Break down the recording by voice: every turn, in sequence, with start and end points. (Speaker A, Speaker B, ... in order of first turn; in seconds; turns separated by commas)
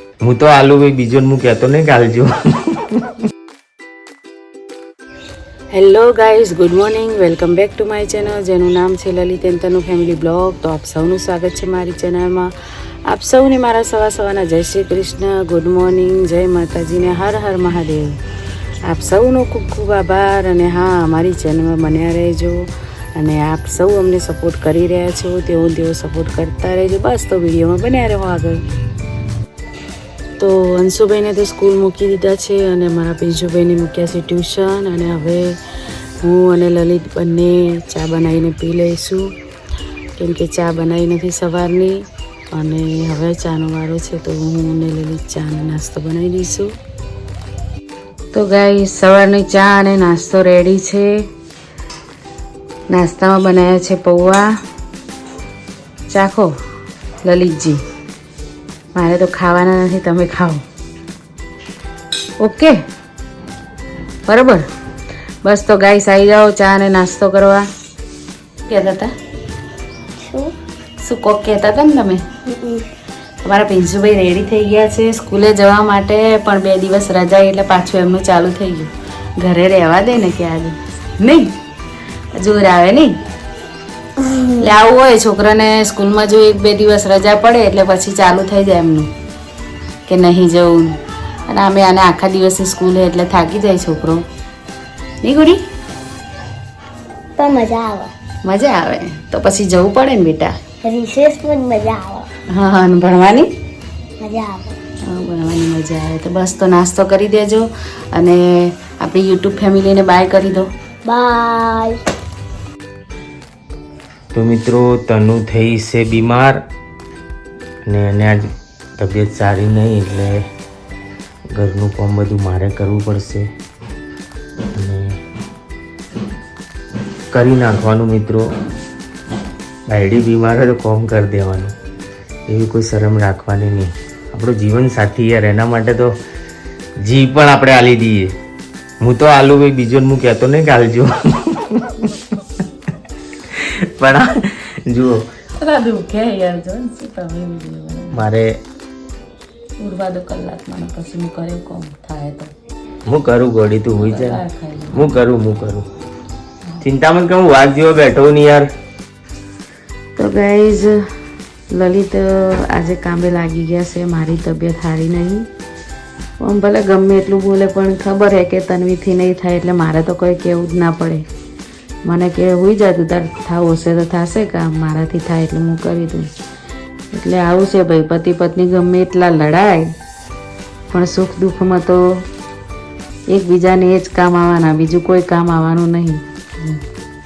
Speaker A: 0.2-3.0, Speaker B: 5.7-12.5, Speaker B: 13.1-18.2, Speaker B: 18.9-28.6, Speaker B: 30.4-35.6, Speaker B: 36.2-39.3, Speaker B: 40.2-46.7, Speaker B: 48.3-51.1, Speaker B: 52.9-54.5, Speaker B: 56.1-56.5, Speaker B: 57.2-57.8, Speaker B: 59.0-60.6, Speaker B: 62.4-62.8, Speaker B: 64.3-64.7, Speaker B: 65.4-67.7, Speaker B: 68.7-69.1, Speaker C: 70.2-70.5, Speaker B: 71.0-72.2, Speaker C: 72.5-72.9, Speaker B: 73.4-81.5, Speaker B: 82.4-83.2, Speaker C: 84.2-84.6, Speaker B: 84.6-89.1, Speaker B: 90.1-91.0, Speaker B: 91.5-94.2, Speaker B: 95.2-95.6, Speaker C: 97.4-98.1, Speaker B: 98.4-100.6, Speaker C: 100.8-102.3, Speaker B: 102.5-103.5, Speaker C: 104.2-104.8, Speaker B: 105.0-110.7, Speaker C: 111.1-112.0, Speaker A: 114.3-116.6, Speaker A: 117.9-120.5, Speaker A: 121.5-123.5, Speaker A: 124.8-125.2, Speaker A: 127.3-128.5, Speaker A: 129.9-131.7, Speaker A: 132.5-136.1, Speaker A: 137.0-138.3, Speaker A: 139.0-142.1, Speaker A: 143.5-145.3, Speaker B: 145.6-148.2, Speaker A: 148.1-148.5, Speaker B: 149.8-152.5, Speaker A: 153.1-154.4, Speaker B: 154.0-155.1, Speaker A: 154.9-155.9, Speaker A: 156.8-158.7, Speaker B: 160.2-161.0, Speaker B: 161.7-165.5, Speaker B: 166.4-171.3, Speaker B: 172.1-176.3, Speaker B: 177.1-179.9, Speaker B: 180.9-182.2, Speaker B: 183.3-186.8